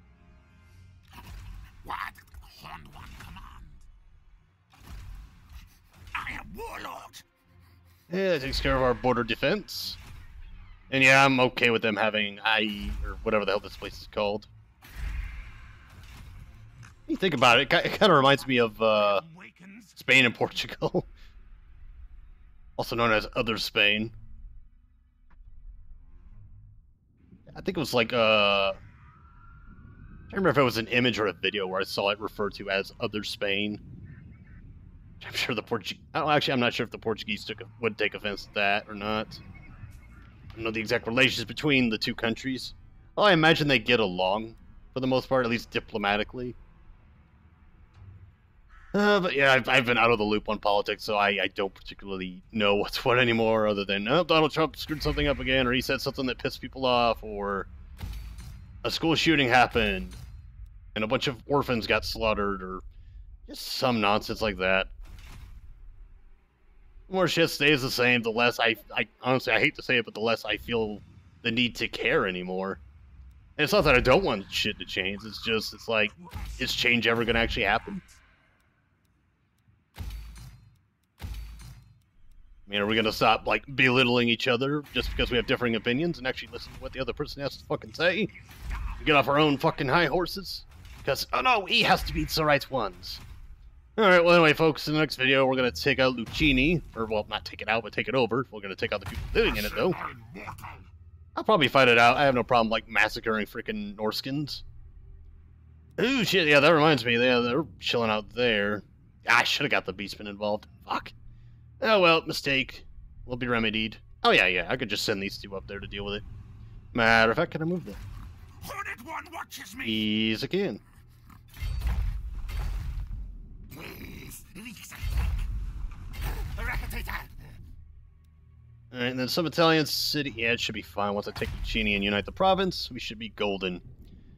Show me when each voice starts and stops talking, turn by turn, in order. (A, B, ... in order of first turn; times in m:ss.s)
0:01.8-0:03.9 A
0:06.1-0:07.3 A
0:08.1-0:10.0 B
0:10.9-0:14.5 B
0:17.1-0:19.2 B
0:17.9-0:20.0 A
0:20.0-0:21.1 B
0:22.8-0:24.1 B
0:27.5-0:28.8 B
0:30.3-0:33.8 B
0:35.2-0:39.4 B
0:40.5-0:46.6 B
0:48.9-0:57.7 B
0:58.8-1:00.2 B
1:01.0-1:02.8 B
1:03.5-1:04.9 B
1:07.1-1:12.8 B
1:13.6-1:18.0 B
1:16.2-1:18.1 A
1:22.7-1:28.3 B
1:28.5-1:29.4 A
1:29.0-1:33.2 B
1:34.0-1:40.0 B
1:39.4-1:40.9 A
1:41.4-1:44.6 B
1:46.0-1:51.1 B
1:51.8-1:56.2 B
1:56.9-1:58.0 B
1:58.6-2:00.0 A
1:59.8-2:00.8 B
2:03.7-2:05.5 A
2:06.2-2:07.5 A
2:08.9-2:13.8 B